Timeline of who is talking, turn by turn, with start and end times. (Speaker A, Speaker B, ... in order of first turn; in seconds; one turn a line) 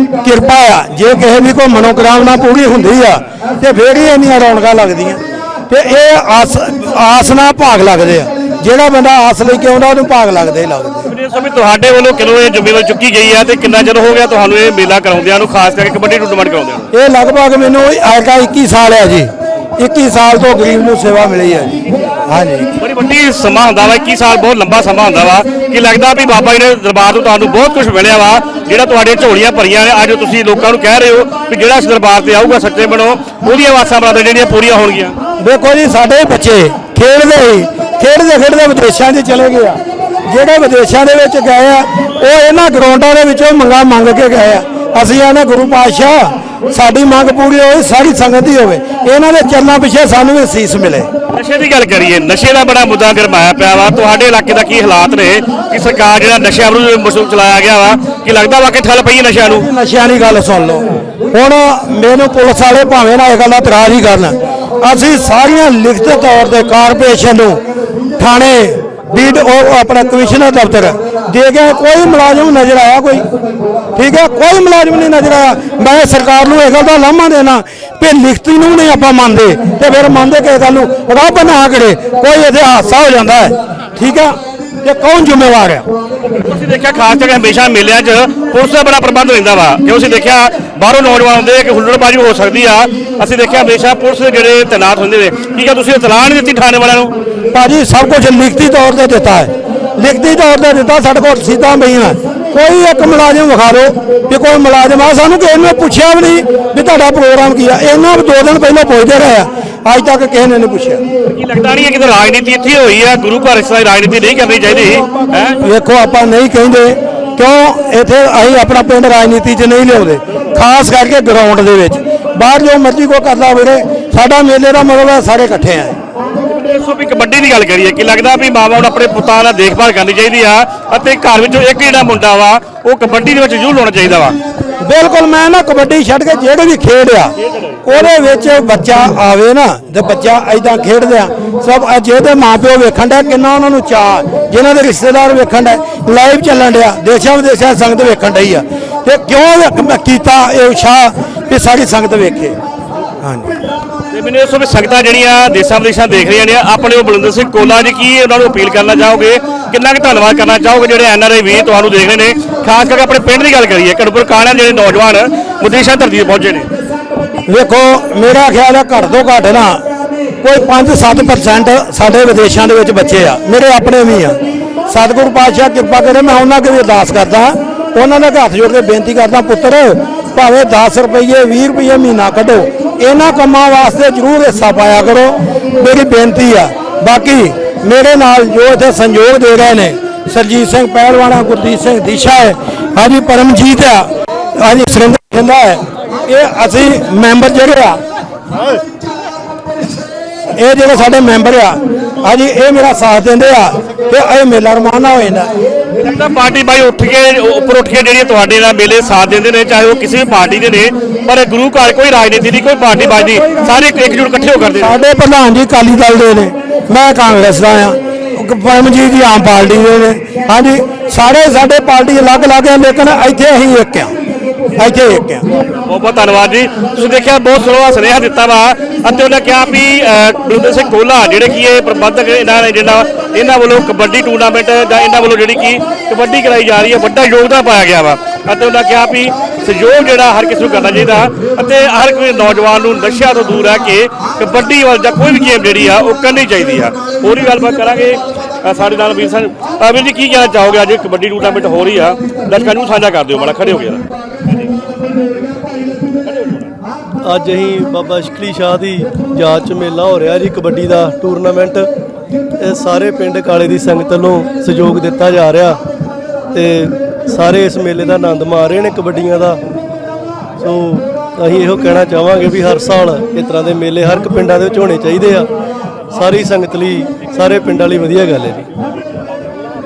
Speaker A: 0.2-11.1
Speaker B: 11.1-16.9
Speaker A: 16.9-22.7
Speaker B: 22.8-35.2
Speaker A: 35.4-51.1
Speaker B: 51.3-59.6
Speaker A: 59.6-67.6
Speaker A: 68.2-73.2
Speaker A: 74.0-85.9
Speaker B: 86.3-97.1
Speaker A: 97.5-111.0
Speaker B: 111.3-115.6
Speaker A: 115.6-126.0
Speaker B: 126.5-134.4
Speaker A: 134.8-137.3
Speaker B: 137.4-137.8
Speaker A: 137.8-152.6
Speaker A: 153.2-153.6
Speaker B: 154.1-166.7
Speaker A: 167.5-169.8
Speaker A: 170.4-198.0
Speaker A: 200.6-205.5
Speaker B: 206.0-215.0
Speaker A: 213.0-214.1
Speaker A: 214.8-224.1
Speaker A: 224.8-225.4
Speaker B: 225.7-254.6
Speaker B: 256.3-256.6
Speaker C: 257.2-261.9
Speaker C: 262.6-265.8
Speaker C: 266.5-269.6
Speaker C: 270.6-275.5
Speaker C: 276.1-278.7